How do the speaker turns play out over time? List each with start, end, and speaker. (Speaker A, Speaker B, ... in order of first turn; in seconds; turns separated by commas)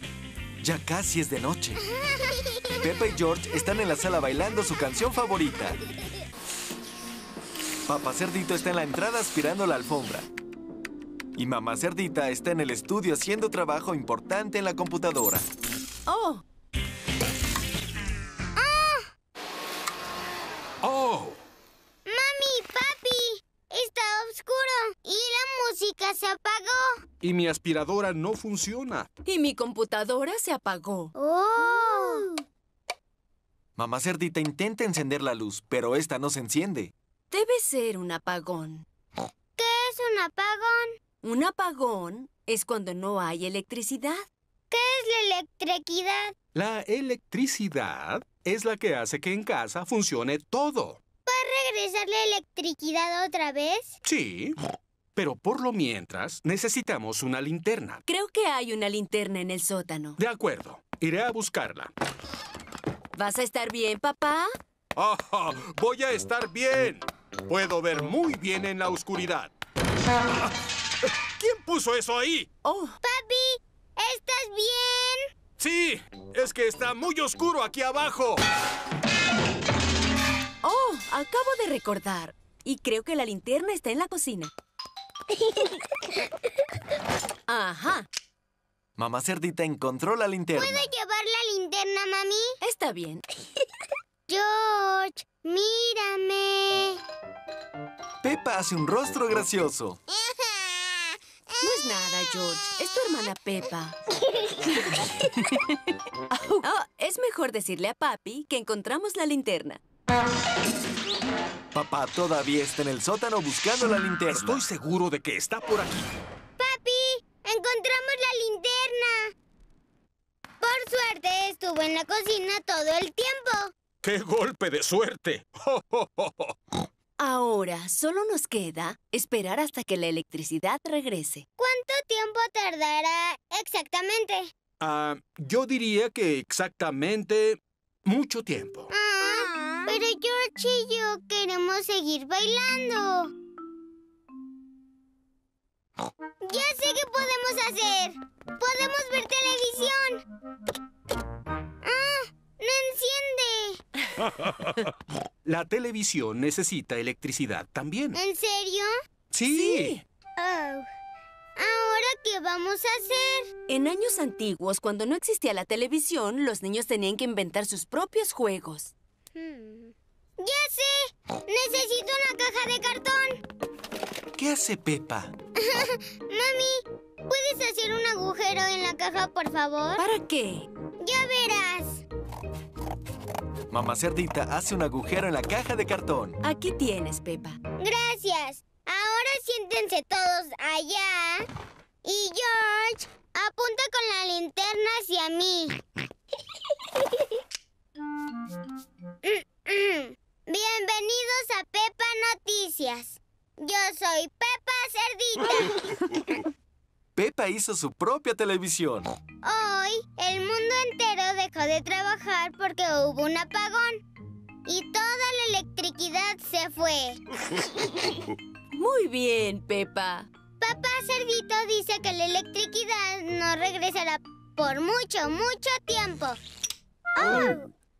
Speaker A: 0.6-1.8, Speaker A: 2.8-5.8, Speaker A: 7.9-10.3, Speaker A: 11.3-15.5, Speaker B: 16.1-16.4, Speaker C: 18.6-19.1, Speaker D: 20.8-21.4, Speaker C: 22.1-27.0, Speaker D: 27.2-29.1, Speaker B: 29.2-31.1, Speaker C: 31.1-32.3, Speaker A: 33.8-36.9, Speaker B: 37.3-38.9, Speaker C: 39.6-41.0, Speaker B: 41.2-44.2, Speaker C: 44.7-46.3, Speaker D: 46.5-51.0, Speaker C: 51.2-53.9, Speaker D: 54.0-54.5, Speaker D: 55.1-58.0, Speaker B: 58.1-60.2, Speaker D: 60.2-61.9, Speaker B: 63.1-64.5, Speaker D: 65.0-69.5, Speaker D: 71.4-72.5, Speaker B: 72.6-73.0, Speaker C: 73.0-75.3, Speaker D: 75.6-78.4, Speaker B: 80.6-84.5, Speaker B: 87.5-88.0, Speaker A: 89.0-90.9, Speaker C: 90.6-92.6, Speaker B: 92.6-93.2, Speaker C: 94.3-97.0, Speaker A: 98.2-100.0, Speaker B: 101.6-104.0, Speaker B: 106.6-109.8, Speaker A: 111.7-114.6, Speaker D: 114.3-116.0, Speaker C: 116.6-119.3, Speaker C: 120.6-123.7, Speaker D: 124.0-126.5, Speaker B: 127.2-131.4, Speaker C: 131.6-134.5, Speaker D: 134.8-138.9, Speaker C: 138.9-143.3, Speaker C: 146.4-150.2, Speaker C: 151.8-153.8, Speaker D: 155.4-158.2, Speaker C: 158.1-158.9, Speaker D: 159.3-160.0, Speaker B: 159.5-159.9, Speaker C: 160.4-160.8, Speaker C: 161.6-163.5, Speaker B: 163.7-168.9, Speaker C: 169.4-173.4, Speaker A: 174.3-175.3, Speaker C: 175.6-180.0, Speaker B: 180.0-180.7, Speaker C: 181.0-182.0, Speaker A: 183.7-186.4, Speaker B: 186.4-187.6, Speaker C: 187.8-191.5, Speaker C: 192.0-195.8, Speaker C: 199.2-206.4, Speaker A: 207.1-209.1, Speaker C: 209.4-214.0, Speaker C: 214.7-217.2, Speaker B: 218.7-220.3, Speaker C: 220.6-226.4, Speaker C: 227.1-227.7